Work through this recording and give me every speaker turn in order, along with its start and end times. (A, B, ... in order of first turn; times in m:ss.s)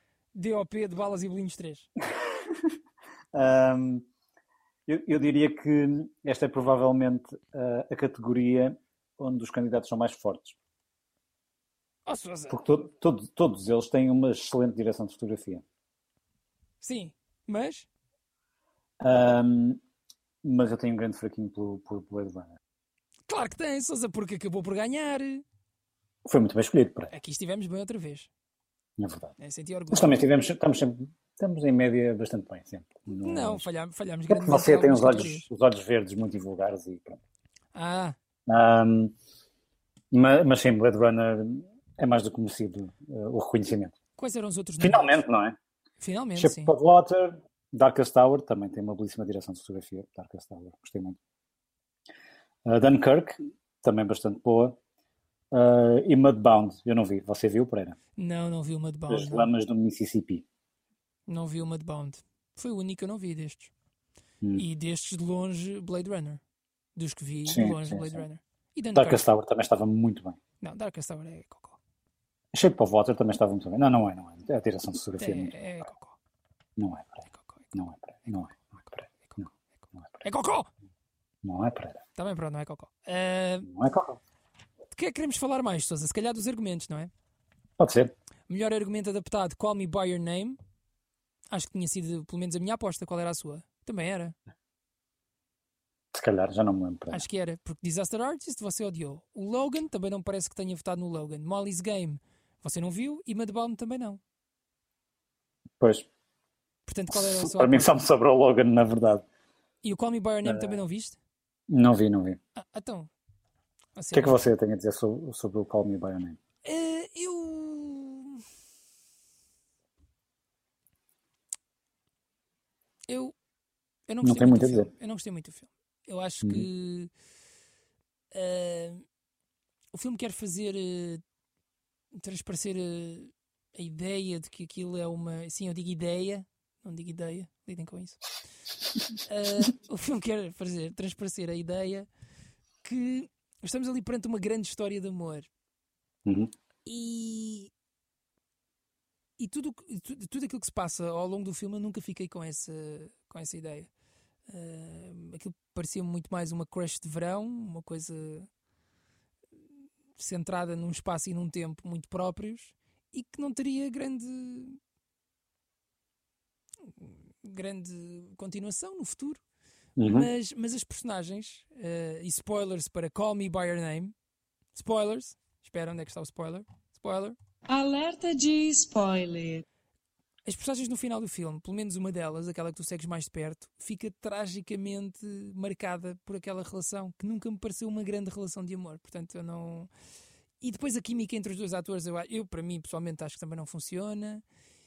0:00.3-0:01.9 A
0:03.3-0:04.1 B
0:04.9-0:10.6 B
0:12.1-0:12.6 A
0:12.5-0:15.6 B
0:16.8-0:17.9 A
0:19.0-0:19.8 B
0:20.4-0:22.6 B
0:23.3-0:25.4 A
0:26.2-0:27.1 B
0:27.1-0:28.3 A
0:29.0-0:29.3 B
0:29.4-0:30.2 A
0:29.9-0:33.6 B
0:33.1-0:35.5 A
0:34.3-0:37.2 B
0:37.7-0:38.2 A
0:38.5-0:39.1 B
0:40.1-0:44.0 B
0:44.2-0:45.2 A
0:44.8-0:45.6 B
0:46.0-0:46.8 A
0:46.4-0:51.2 B
0:52.6-0:54.8 B
0:55.5-0:58.0 B
0:58.2-0:59.5 A
0:59.1-1:00.4 B
1:01.3-1:03.7 A
1:04.6-1:06.4 A
1:07.0-1:09.2 A
1:07.5-1:08.2 B
1:09.0-1:10.4 B
1:10.6-1:11.8 A
1:12.5-1:15.6 B
1:15.2-1:16.2 A
1:16.8-1:20.2 B
1:17.3-1:17.7 A
1:20.2-1:20.7 A
1:21.4-1:22.0 B
1:22.2-1:23.7 A
1:23.7-1:24.2 B
1:24.9-1:27.1 A
1:27.8-1:28.1 B
1:28.5-1:30.6 A
1:31.5-1:34.4 A
1:36.1-1:37.2 B
1:37.1-1:44.2 A
1:45.8-1:46.1 B
1:46.9-1:48.0 A
1:47.1-1:49.2 B
1:49.8-1:51.2 A
1:50.4-1:50.8 B
1:51.7-1:52.4 B
1:52.6-1:53.1 A
1:54.0-1:54.4 A
1:54.1-1:56.4 B
1:56.6-1:58.4 A
2:03.1-2:03.3 A
2:04.1-2:07.1 A
2:04.2-2:04.9 B
2:08.3-2:09.0 A
2:09.9-2:11.2 A
2:12.1-2:18.2 A
2:19.3-2:22.1 A
2:22.8-2:25.5 A
2:26.3-2:26.5 B
2:26.8-2:27.7 A
2:29.4-2:33.9 A
2:34.5-2:38.5 A
2:40.2-2:44.8 A
2:47.0-2:49.4 A
2:50.0-2:50.3 B
2:50.1-2:54.1 A
2:54.7-2:57.4 A
2:57.7-2:59.6 C
3:00.5-3:09.9 A
3:10.6-3:14.4 A